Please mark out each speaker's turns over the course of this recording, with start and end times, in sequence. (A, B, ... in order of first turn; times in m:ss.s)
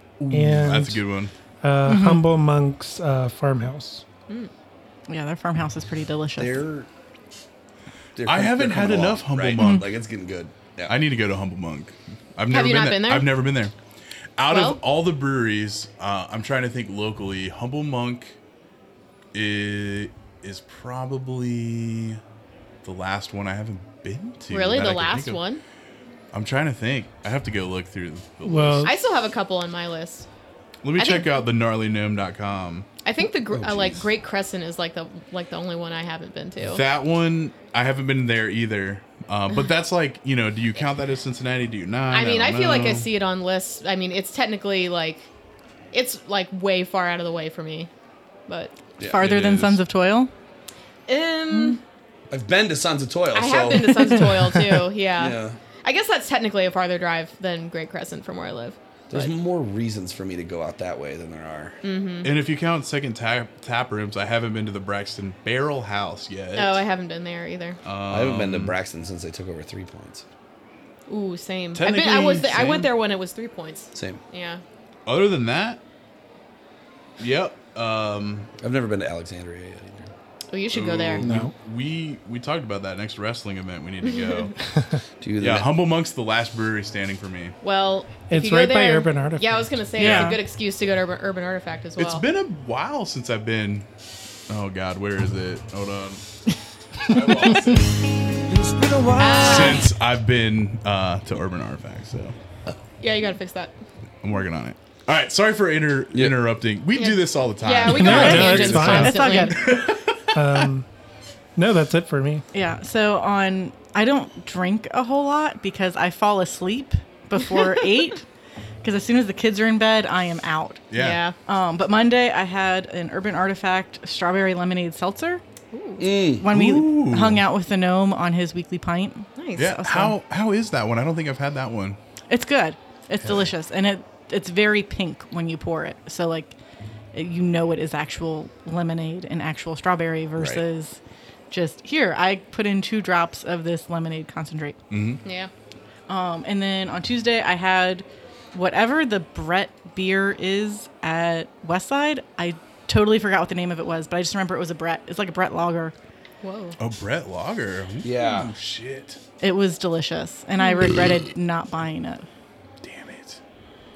0:00.2-0:01.3 A
0:00.3-0:01.0 B
0:01.6-0:04.0 B
0:01.8-0:02.2 C
0:05.1-0:06.6 C
0:06.4-0:06.9 D
0:08.2-0:10.9 D
0:08.2-0:09.9 A
0:09.6-0:09.8 C
0:10.9-0:13.7 A
0:12.5-0:13.4 E
0:14.4-0:18.4 A
0:14.5-0:14.8 E
0:19.3-0:22.2 A
0:22.8-0:25.4 A
0:24.5-0:25.6 E
0:26.3-0:28.9 A
0:28.4-0:28.9 B
0:28.8-0:30.3 E
0:30.8-0:32.9 A
0:31.0-0:31.3 E
0:33.0-0:36.8 E
0:33.5-0:34.0 D
0:36.6-0:43.1 A
0:42.1-0:45.3 E
0:45.9-0:47.9 E
0:48.5-0:48.7 E
0:49.0-0:50.3 C
0:49.1-0:49.8 A
0:51.1-0:51.8 E
0:51.5-0:51.8 C
0:52.3-0:54.2 D
0:53.3-0:59.3 E
0:55.2-0:55.6 D
0:59.1-1:01.8 D
1:01.8-1:02.3 E
1:02.2-1:06.8 A
1:06.5-1:07.8 E
1:07.8-1:08.7 A
1:08.1-1:10.2 D
1:11.1-1:14.6 E
1:11.7-1:12.9 A
1:13.9-1:14.2 D
1:15.0-1:15.8 A
1:17.2-1:18.5 A
1:18.6-1:20.1 D
1:20.5-1:21.3 E
1:20.8-1:24.5 A
1:20.8-1:21.1 D
1:21.2-1:21.5 B
1:25.2-1:25.6 D
1:25.4-1:27.6 A
1:27.6-1:32.2 E
1:28.3-1:29.8 B
1:30.0-1:30.4 C
1:30.0-1:30.3 A
1:32.0-1:33.8 A
1:34.5-1:36.2 A
1:37.0-1:37.9 A
1:38.5-1:39.4 D
1:39.2-1:39.6 C
1:39.2-1:39.9 E
1:39.3-1:42.3 A
1:43.0-1:43.7 E
1:44.2-1:50.4 A
1:46.9-1:49.7 E
1:47.9-1:49.7 B
1:48.8-1:49.6 C
1:50.3-1:50.9 B
1:51.6-1:52.4 B
1:52.5-1:58.2 C
1:58.8-2:00.9 C
2:00.9-2:01.2 A
2:00.9-2:01.3 E
2:01.4-2:05.4 C
2:05.7-2:06.1 E
2:06.0-2:06.4 D
2:06.4-2:10.2 C
2:06.5-2:07.4 A
2:09.4-2:09.8 E
2:09.6-2:12.0 A
2:12.3-2:16.5 C
2:17.1-2:21.0 C
2:21.5-2:24.8 C
2:24.9-2:25.2 A
2:25.2-2:25.5 E
2:26.1-2:35.9 C
2:36.4-2:36.8 E
2:36.8-2:39.2 A
2:38.0-2:38.5 D
2:39.4-2:42.2 C
2:40.6-2:40.9 E
2:42.8-2:43.4 A